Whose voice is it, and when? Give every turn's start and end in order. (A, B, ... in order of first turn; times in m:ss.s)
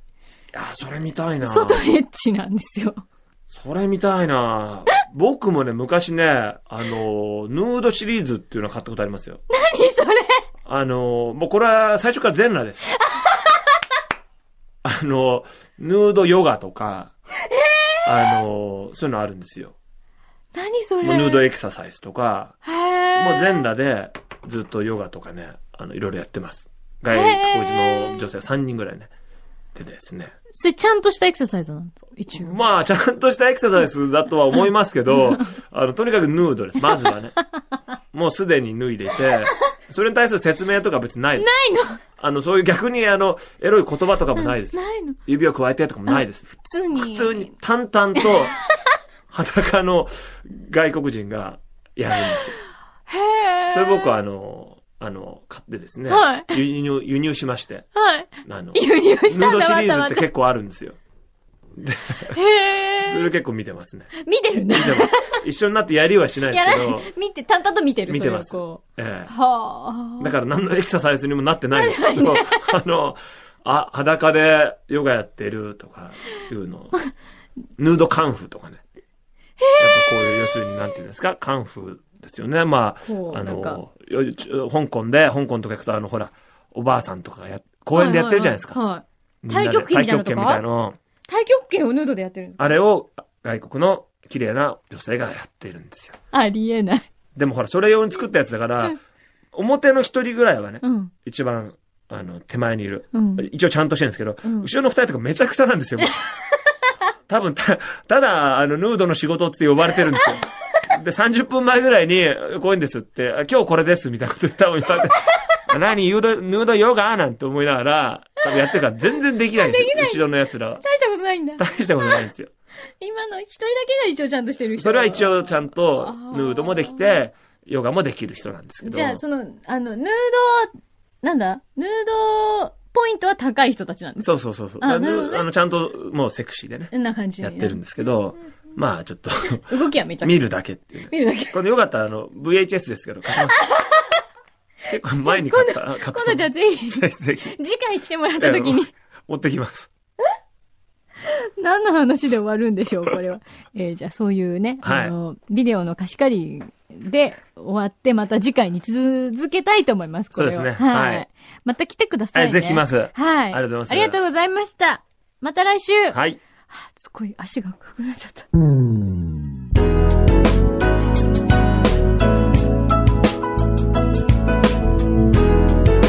0:00.5-0:01.8 A
0:01.4-0:03.0 B
0:03.5-0:09.4 A
0:09.5-0:10.4 B
0:10.7-0:12.9 A
0:12.9-0:13.7 B
0:14.8-0:17.1 A
0:17.4-0:18.4 B
0:18.0-0:19.8 A
0:20.5-0:21.5 B
0:21.0-0:22.6 A
0:22.6-0:23.7 B
0:23.2-0:29.1 A
0:27.1-0:28.3 B
0:29.7-0:30.3 A
0:30.5-0:32.6 B
0:32.3-0:37.4 A
0:36.9-0:37.6 B
0:38.1-0:41.5 A
0:41.4-0:42.0 B
0:42.2-0:48.6 A
0:44.4-0:45.2 B
0:46.1-0:47.5 B
0:49.3-0:52.5 A
0:53.1-0:54.1 B
0:53.7-0:57.9 A
0:56.1-0:56.6 B
0:58.0-1:00.2 B
0:58.4-1:01.0 A
1:01.8-1:02.4 A
1:02.3-1:03.3 B
1:03.0-1:04.1 A
1:04.2-1:05.4 B
1:04.7-1:07.1 A
1:06.5-1:10.3 B
1:08.1-1:09.3 A
1:10.2-1:16.9 A
1:11.7-1:12.8 B
1:17.8-1:18.8 A
1:19.6-1:20.8 B
1:19.8-1:28.8 A
1:23.1-1:23.8 B
1:27.9-1:30.6 B
1:29.4-1:31.0 A
1:31.3-1:32.8 B
1:32.6-1:36.2 A
1:36.3-1:37.1 B
1:37.4-1:39.0 A
1:39.5-1:46.1 A
1:40.8-1:41.1 B
1:43.1-1:43.5 B
1:44.4-1:44.7 B
1:47.3-2:00.8 A
1:59.5-2:02.3 B
2:01.6-2:02.5 A
2:03.0-2:07.2 B
2:04.8-2:09.2 A
2:08.8-2:14.3 B
2:14.2-2:23.7 A
2:14.8-2:15.5 B
2:16.9-2:17.8 B
2:19.6-2:20.5 B
2:21.1-2:21.6 B
2:23.5-2:24.1 B
2:24.9-2:27.6 A
2:25.2-2:28.9 B
2:28.4-2:29.9 A
2:31.2-2:46.2 B
2:34.8-2:35.2 A
2:40.3-2:41.3 A
2:42.3-2:44.2 A
2:46.1-2:46.4 A
2:46.7-2:48.5 B